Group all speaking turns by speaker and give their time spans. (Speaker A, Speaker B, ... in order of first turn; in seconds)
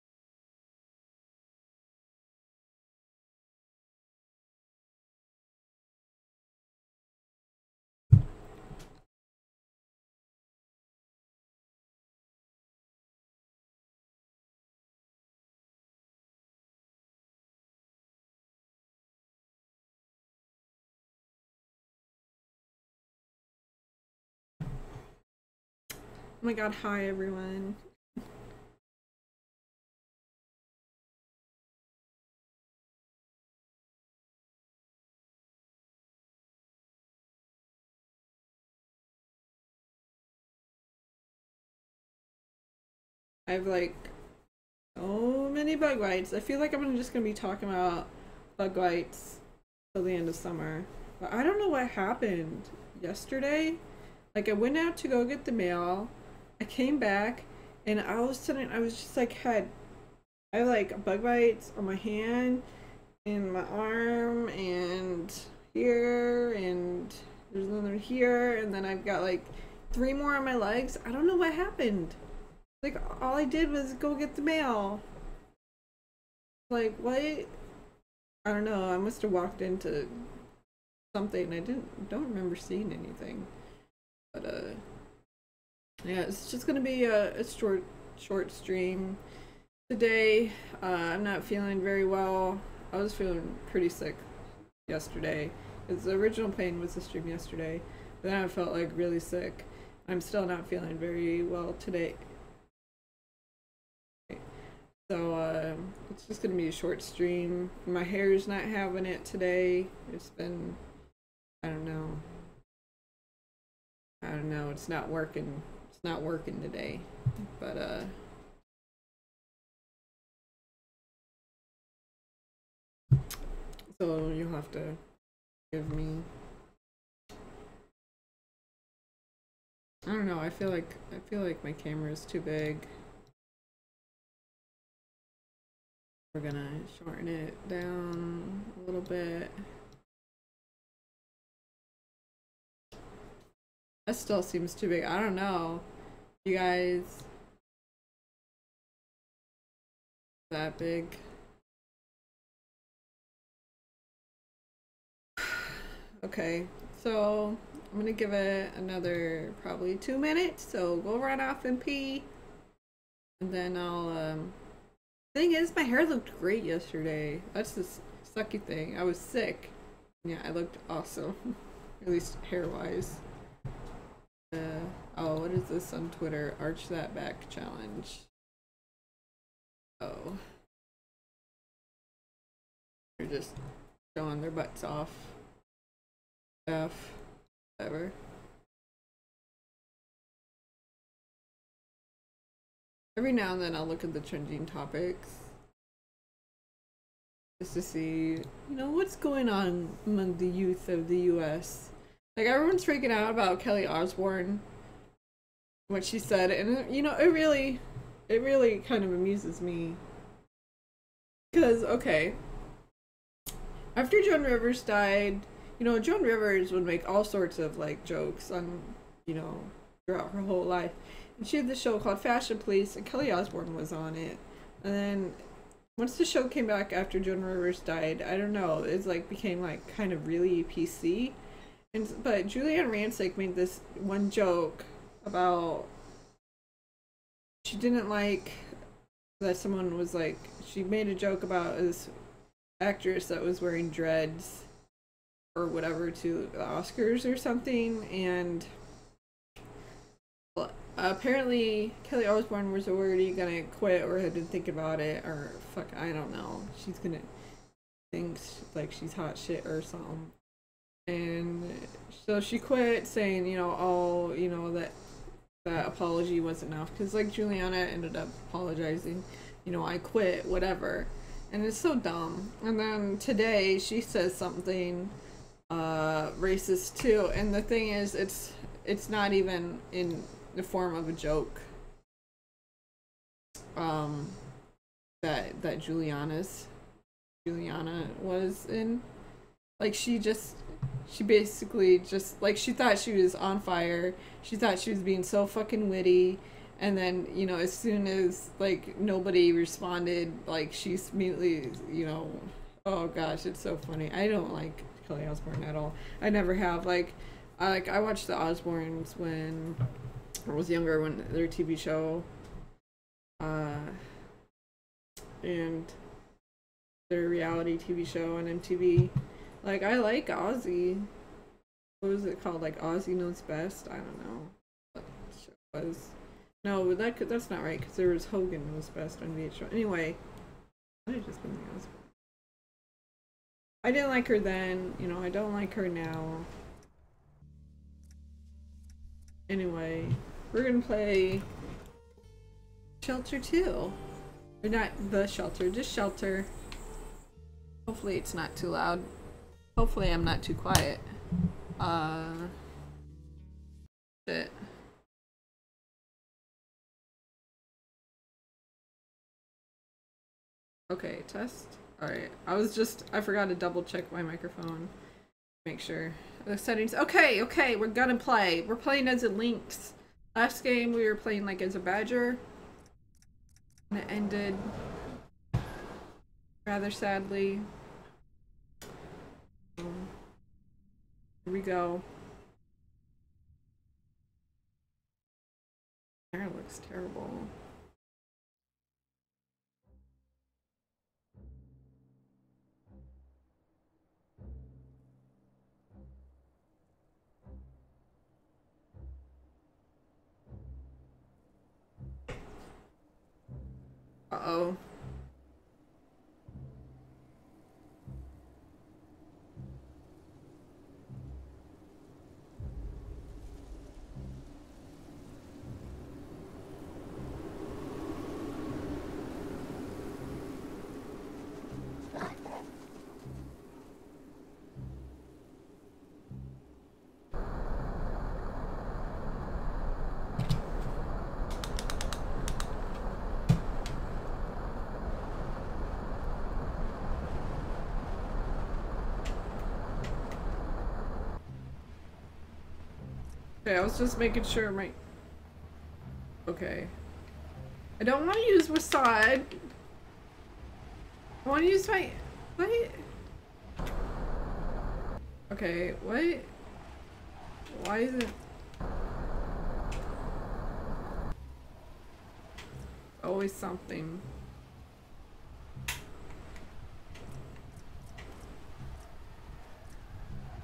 Speaker A: 26.4-27.8, 43.5-44.1, 45.0-53.8, 54.3-59.7, 60.5-62.6, 63.2-72.2, 72.8-75.0, 76.7-77.5, 78.5-80.3, 81.1-83.5, 84.3-84.8, 86.0-89.2, 89.9-94.2, 94.9-102.2, 105.1-110.8, 111.6-112.3, 114.2-118.2, 123.9-125.0, 125.7-126.3, 130.1-132.9, 136.3-139.6, 144.1-145.9, 146.4-147.3, 150.5-151.2, 155.4-162.3, 163.4-164.6, 165.3-171.4, 172.0-173.2, 174.5-178.3, 180.0-180.4, 183.2-183.6, 184.1-185.4, 186.7-187.2, 187.8-188.2, 193.2-195.5, 197.6-204.6, 205.9-210.0, 211.5-212.4, 213.9-225.4, 226.0-231.4, 231.9-235.9, 237.6-238.7, 239.4-242.2, 242.8-244.7, 245.5-248.7, 250.6-257.3, 258.1-260.3, 261.1-264.9, 265.6-275.1, 275.7-281.7, 283.8-284.4, 285.2-286.7, 287.4-289.0, 289.8-309.8, 310.4-312.3, 313.4-314.0, 315.4-316.0, 317.1-321.1, 322.0-330.2, 331.1-332.1, 333.8-336.5, 339.5-341.5, 343.0-344.0, 344.6-346.5, 347.9-349.1, 349.8-351.0, 351.8-352.5, 354.2-354.5, 360.9-364.9, 365.6-372.4, 373.9-374.7, 376.6-377.7, 379.8-380.1, 381.4-382.1, 386.3-387.5, 404.3-404.8, 443.6-445.0, 446.5-446.9, 448.0-449.6, 451.4-453.1, 455.5-456.5, 457.7-458.4, 463.2-464.3